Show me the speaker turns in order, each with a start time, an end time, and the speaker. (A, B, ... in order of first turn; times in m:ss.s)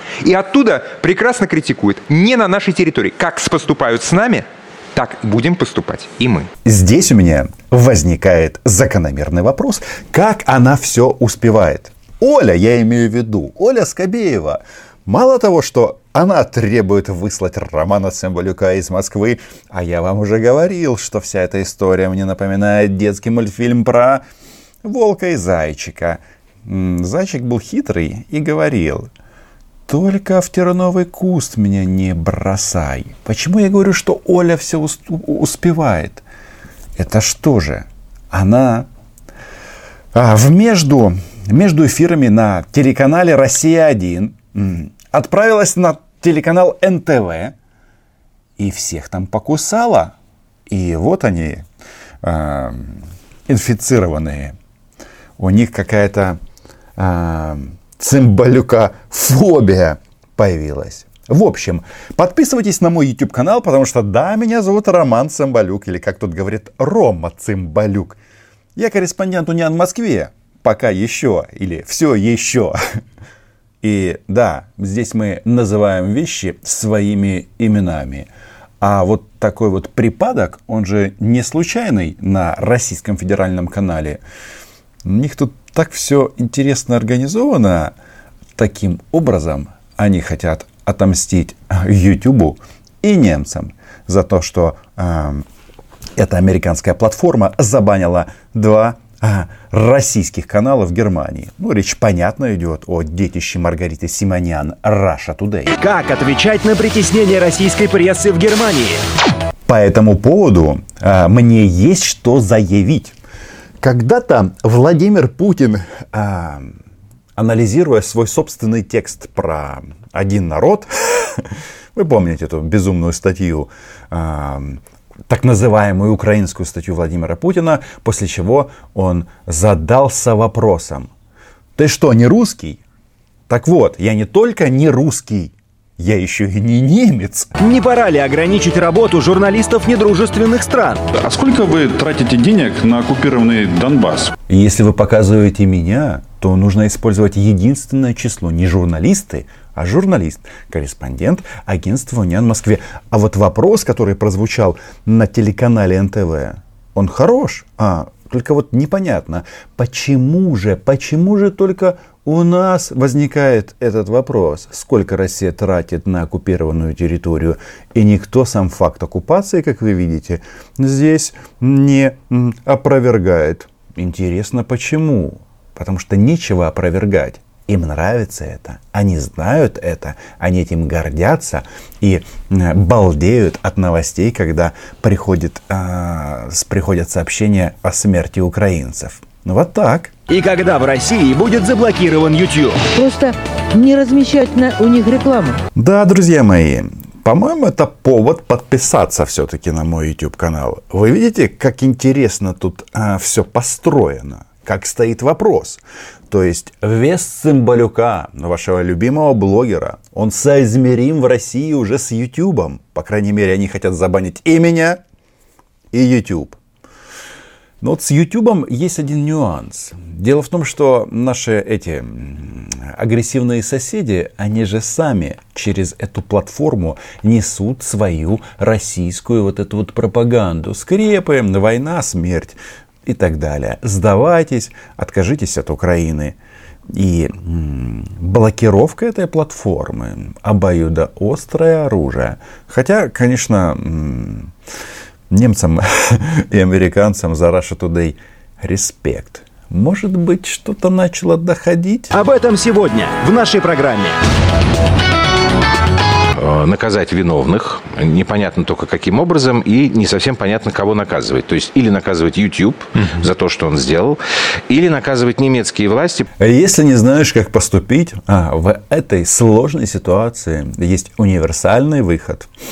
0:00.2-0:06.5 A
0:06.6-0:24.2 B
0:24.8-0:29.1 B
0:29.9-0:36.2 B
0:37.0-0:38.9 B
0:40.1-0:47.5 B
0:48.6-0:50.1 B
0:50.7-0:51.6 B
0:52.2-0:54.5 B
0:55.4-0:56.4 B
0:57.0-1:08.2 B
1:08.8-1:12.8 B
1:13.8-1:18.3 B
1:18.8-1:24.2 B
1:25.0-1:27.9 B
1:28.6-1:35.4 B
1:36.2-1:45.7 B
1:45.8-1:49.0 C
1:49.7-1:53.2 B
1:53.8-1:56.8 B
1:57.4-2:11.1 B
2:11.8-2:12.8 B
2:13.5-2:17.5 B
2:17.6-2:21.0 C
2:21.1-2:24.3 D
2:24.5-3:10.1 B
3:10.3-3:12.8 C
3:12.9-3:15.6 E
3:15.7-3:35.0 B
3:35.9-3:36.6 B
3:37.8-3:56.4 B
3:56.9-4:04.5 B
4:05.3-4:12.1 B
4:12.1-4:14.2 C
4:16.3-4:24.2 F
4:24.7-4:26.3 F
4:26.4-4:32.5 B